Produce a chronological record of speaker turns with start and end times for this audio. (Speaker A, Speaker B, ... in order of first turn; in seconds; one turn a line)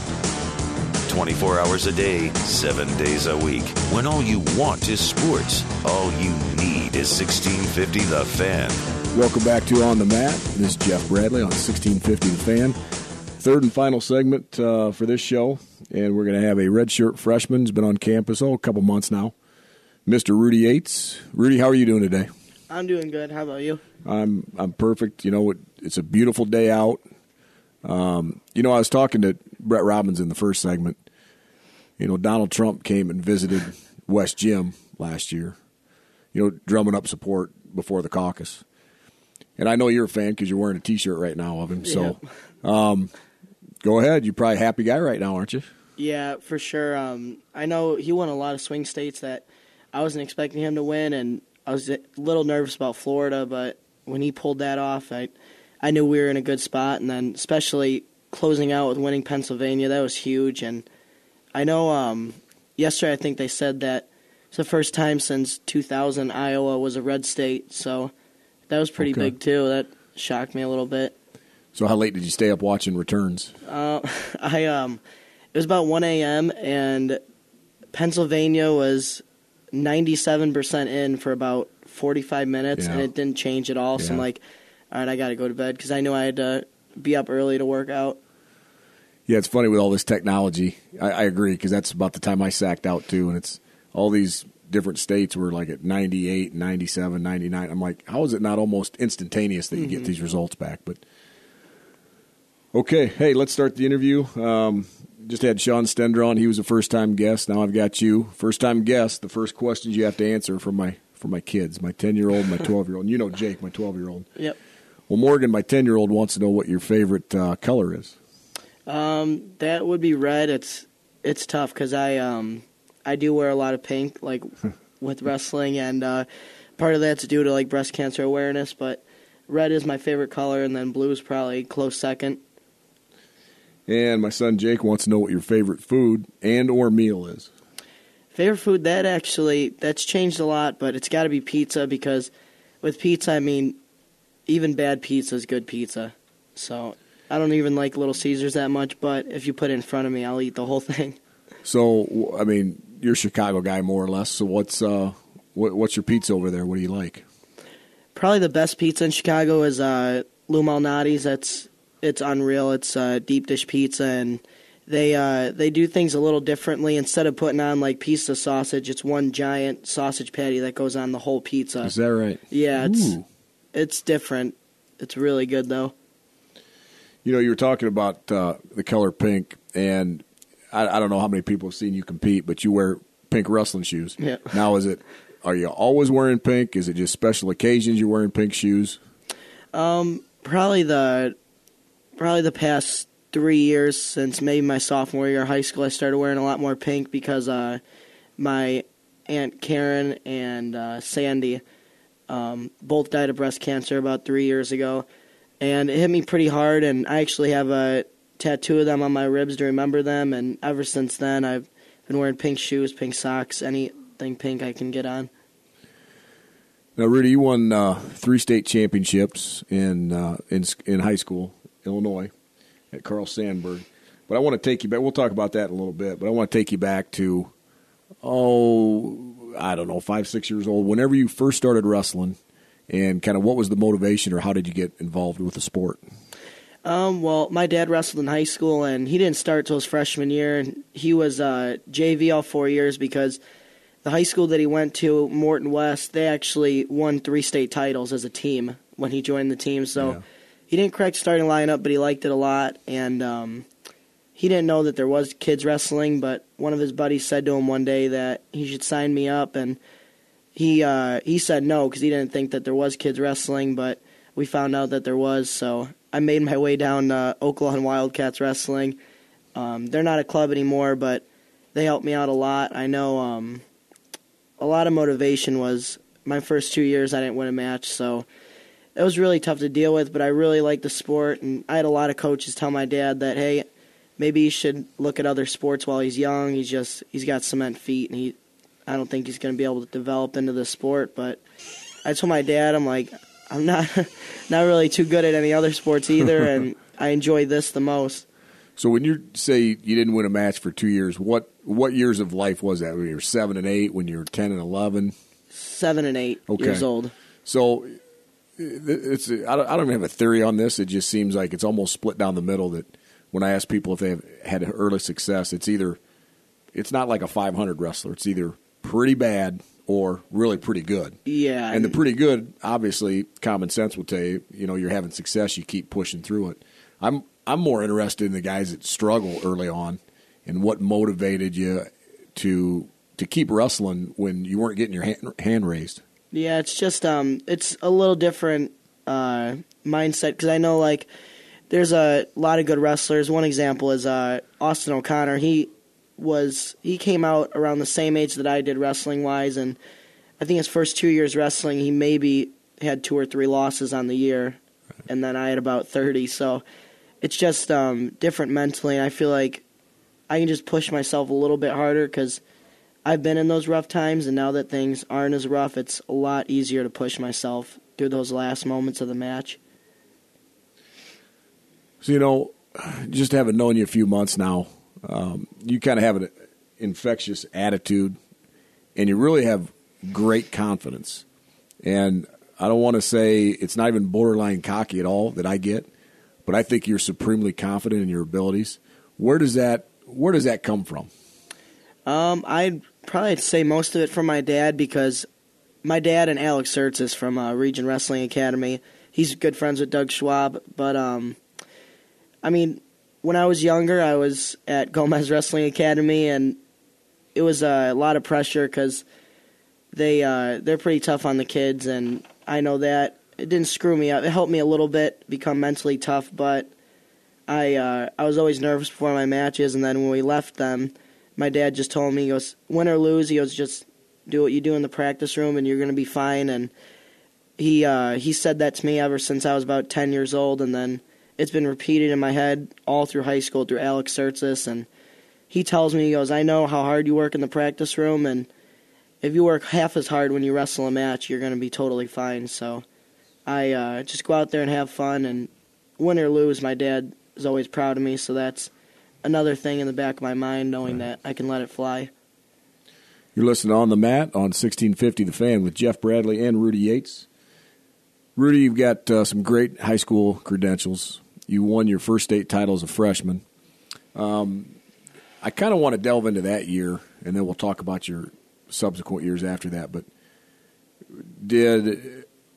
Speaker A: 1.1-8.8
Speaker B: 9.1-12.8
Speaker B: 13.4-19.3
Speaker B: 20.1-22.3
Speaker C: 22.7-23.8
Speaker B: 24.0-27.0
Speaker B: 27.8-31.0
Speaker B: 32.0-35.5
Speaker B: 36.3-38.6
Speaker B: 39.6-43.1
Speaker C: 41.8-42.2
Speaker B: 43.8-45.7
Speaker C: 46.0-60.8
Speaker C: 61.5-68.1
Speaker C: 68.7-71.1
Speaker B: 69.0-69.3
Speaker B: 71.7-73.5
Speaker C: 73.7-75.0
Speaker C: 75.5-77.2
Speaker C: 77.9-84.4
Speaker B: 82.7-83.1
Speaker B: 84.0-84.2
Speaker C: 84.9-88.2
Speaker B: 89.3-101.0
Speaker C: 99.8-100.1
Speaker B: 102.7-114.3
Speaker B: 115.1-118.1
Speaker C: 118.9-132.4
Speaker B: 133.9-137.5
Speaker C: 138.3-142.3
Speaker C: 142.8-143.8
Speaker C: 144.5-151.2
Speaker B: 151.6-157.2
Speaker C: 158.1-171.9
Speaker B: 171.8-173.2
Speaker C: 172.5-173.2
Speaker C: 173.7-175.9
Speaker B: 177.2-189.0
Speaker C: 184.2-184.5
Speaker C: 189.7-191.3
Speaker C: 192.2-197.8
Speaker C: 198.4-201.6
Speaker C: 202.3-205.1
Speaker C: 205.6-215.3
Speaker B: 216.9-222.3
Speaker B: 222.9-227.5
Speaker B: 228.2-232.4
Speaker B: 232.9-236.0
Speaker C: 236.8-243.4
Speaker C: 244.0-253.7
Speaker B: 249.9-250.2
Speaker C: 254.3-259.8
Speaker C: 260.5-269.0
Speaker C: 269.5-273.6
Speaker C: 274.6-278.3
Speaker C: 278.9-283.7
Speaker C: 284.2-288.4
Speaker C: 288.9-291.4
Speaker C: 292.0-298.2
Speaker B: 298.8-305.1
Speaker C: 305.5-307.1
Speaker B: 306.5-306.9
Speaker B: 307.4-308.0
Speaker B: 308.6-316.0
Speaker B: 316.7-321.2
Speaker C: 321.3-322.0
Speaker B: 321.7-336.0
Speaker C: 336.3-341.1
Speaker C: 341.7-349.8
Speaker C: 350.4-356.6
Speaker C: 357.2-359.6
Speaker C: 360.3-362.4
Speaker C: 363.0-369.6
Speaker B: 372.0-378.2
Speaker B: 378.9-381.2
Speaker B: 381.8-385.9
Speaker B: 386.4-391.1
Speaker C: 392.1-395.3
Speaker C: 395.8-401.4
Speaker C: 402.4-406.6
Speaker C: 407.3-409.0
Speaker C: 409.9-416.7
Speaker C: 417.5-426.7
Speaker C: 427.6-434.9
Speaker C: 435.5-438.5
Speaker C: 439.2-442.8
Speaker C: 443.4-448.7
Speaker C: 449.2-452.1
Speaker B: 453.3-457.3
Speaker B: 458.4-463.4
Speaker B: 464.1-464.8
Speaker B: 465.4-470.1
Speaker B: 471.2-472.2